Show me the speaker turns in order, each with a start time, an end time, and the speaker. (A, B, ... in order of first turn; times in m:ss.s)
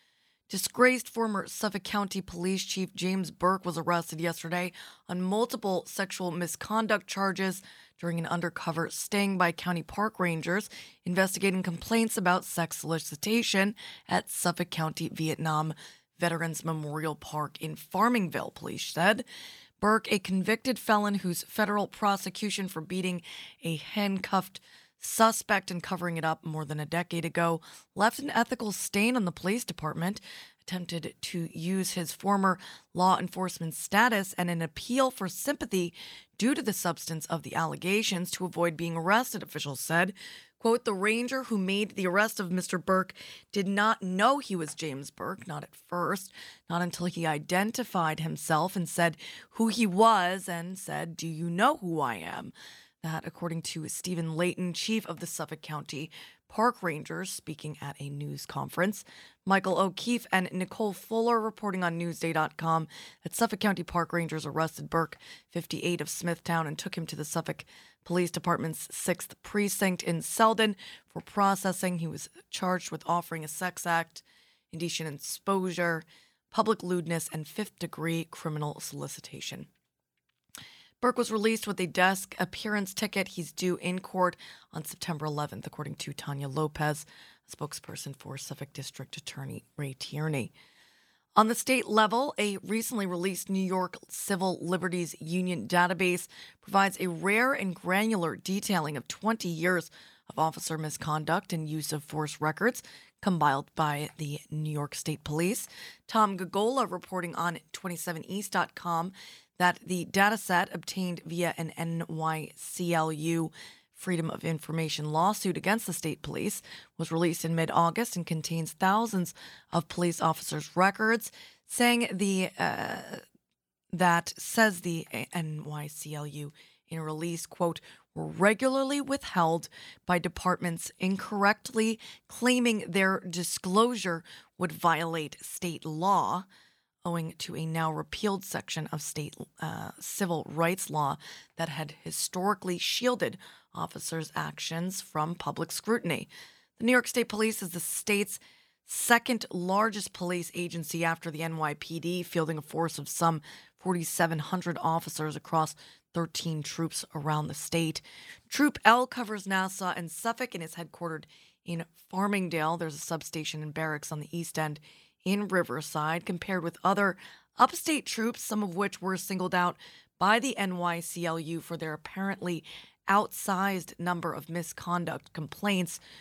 0:00.5-0:19.2 A
0:19.8-1:19.7 A
1:21.0-1:30.5 A
1:31.4-2:03.2 A
2:03.9-2:16.4 A
2:17.0-2:56.0 A